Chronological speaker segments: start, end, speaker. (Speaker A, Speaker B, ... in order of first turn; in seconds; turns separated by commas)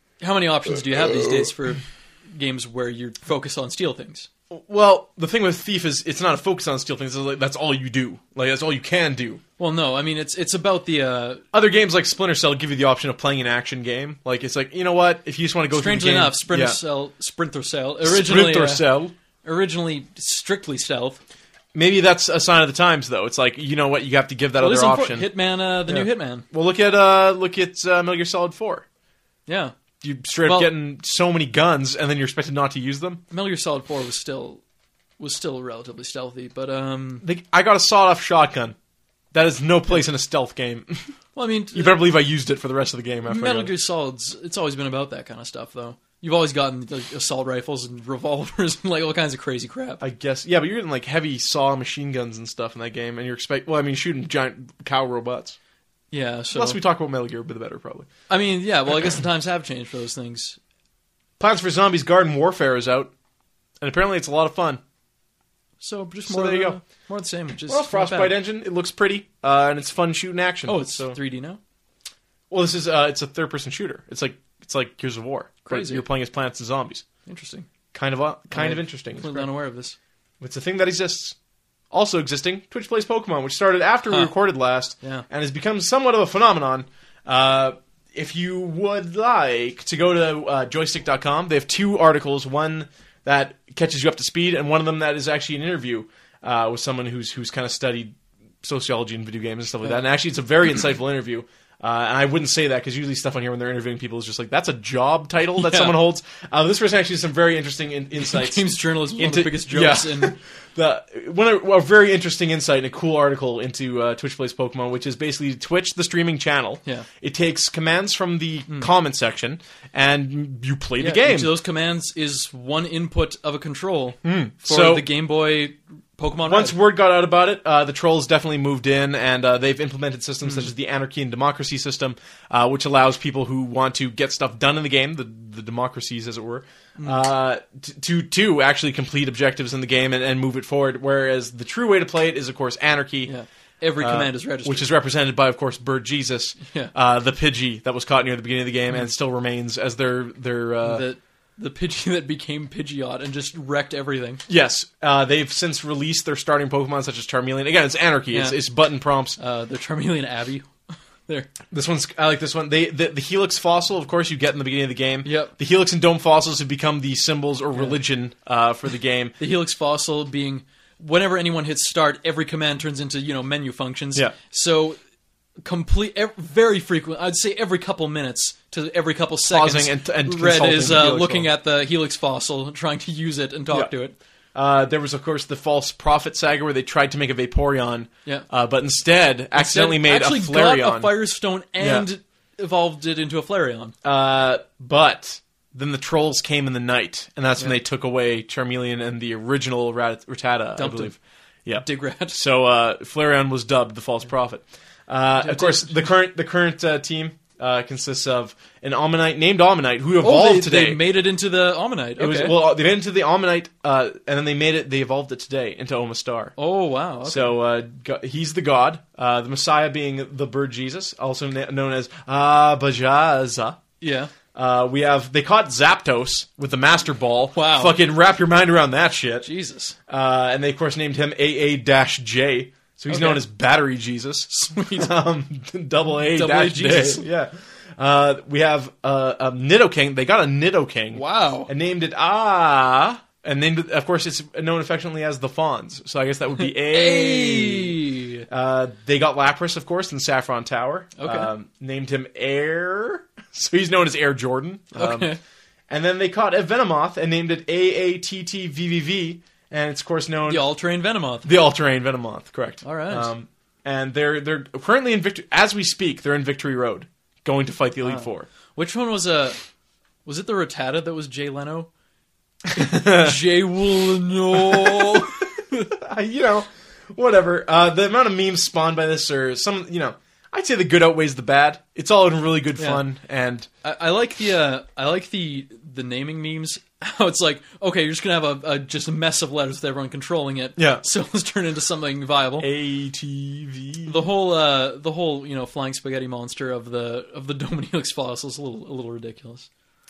Speaker A: 0.2-4.3, Speaker B: 4.5-9.4, Speaker A: 9.6-11.4, Speaker B: 11.5-16.8, Speaker A: 15.7-18.9, Speaker B: 18.0-19.1, Speaker A: 19.4-21.2, Speaker B: 21.7-25.3, Speaker A: 24.6-26.4, Speaker B: 25.9-28.9, Speaker A: 29.5-29.8, Speaker B: 30.0-33.2, Speaker A: 30.4-30.7, Speaker A: 33.3-34.6, Speaker A: 35.2-37.2, Speaker B: 37.2-38.8, Speaker B: 39.3-41.1, Speaker A: 41.4-42.0, Speaker B: 41.7-43.7, Speaker A: 43.3-50.0, Speaker B: 50.0-55.6, Speaker A: 56.1-56.8, Speaker B: 56.5-58.1, Speaker A: 58.3-60.6, Speaker B: 61.4-63.1, Speaker B: 63.8-64.8, Speaker A: 65.8-68.4, Speaker B: 66.3-66.8, Speaker B: 67.7-71.2, Speaker A: 70.7-71.6, Speaker B: 72.5-77.0, Speaker A: 75.7-76.0, Speaker A: 77.3-77.7, Speaker B: 77.9-79.5, Speaker A: 78.5-80.0, Speaker B: 80.4-81.4, Speaker B: 81.9-121.6, Speaker A: 105.6-106.0, Speaker A: 108.2-110.4, Speaker A: 121.0-126.8, Speaker B: 124.2-125.1, Speaker B: 126.5-143.3, Speaker A: 130.4-130.7, Speaker A: 137.0-137.2, Speaker A: 143.3-144.9, Speaker B: 144.0-151.1, Speaker A: 150.8-154.4, Speaker B: 154.5-159.4, Speaker A: 158.3-158.6, Speaker A: 159.4-160.7, Speaker A: 161.3-161.5, Speaker B: 161.7-169.4, Speaker A: 165.2-165.5, Speaker A: 169.4-175.0, Speaker A: 175.7-184.2, Speaker B: 179.5-181.5, Speaker B: 184.6-191.2, Speaker A: 189.6-193.9, Speaker B: 191.8-192.1, Speaker B: 194.0-211.0, Speaker A: 200.8-201.2, Speaker A: 201.8-202.4, Speaker A: 205.4-206.1, Speaker A: 210.2-212.6, Speaker B: 212.2-216.5, Speaker A: 216.6-217.6, Speaker B: 217.3-223.8, Speaker A: 224.0-224.3, Speaker B: 224.5-229.5, Speaker A: 227.6-228.0, Speaker A: 229.4-230.0, Speaker B: 230.1-255.3, Speaker A: 233.1-233.4, Speaker A: 234.5-235.1, Speaker A: 236.3-237.2, Speaker A: 241.1-241.7, Speaker A: 246.6-248.4, Speaker A: 251.2-251.5, Speaker A: 254.9-255.4, Speaker B: 255.9-260.7, Speaker A: 260.5-261.5, Speaker B: 261.4-268.5, Speaker A: 262.8-263.3, Speaker A: 268.0-269.6, Speaker A: 270.2-271.9, Speaker B: 272.8-273.4, Speaker A: 272.8-275.9, Speaker B: 274.5-275.4, Speaker B: 275.9-283.7, Speaker A: 282.8-283.0, Speaker A: 283.8-292.7, Speaker B: 290.8-291.0, Speaker B: 292.6-294.3, Speaker A: 294.1-299.7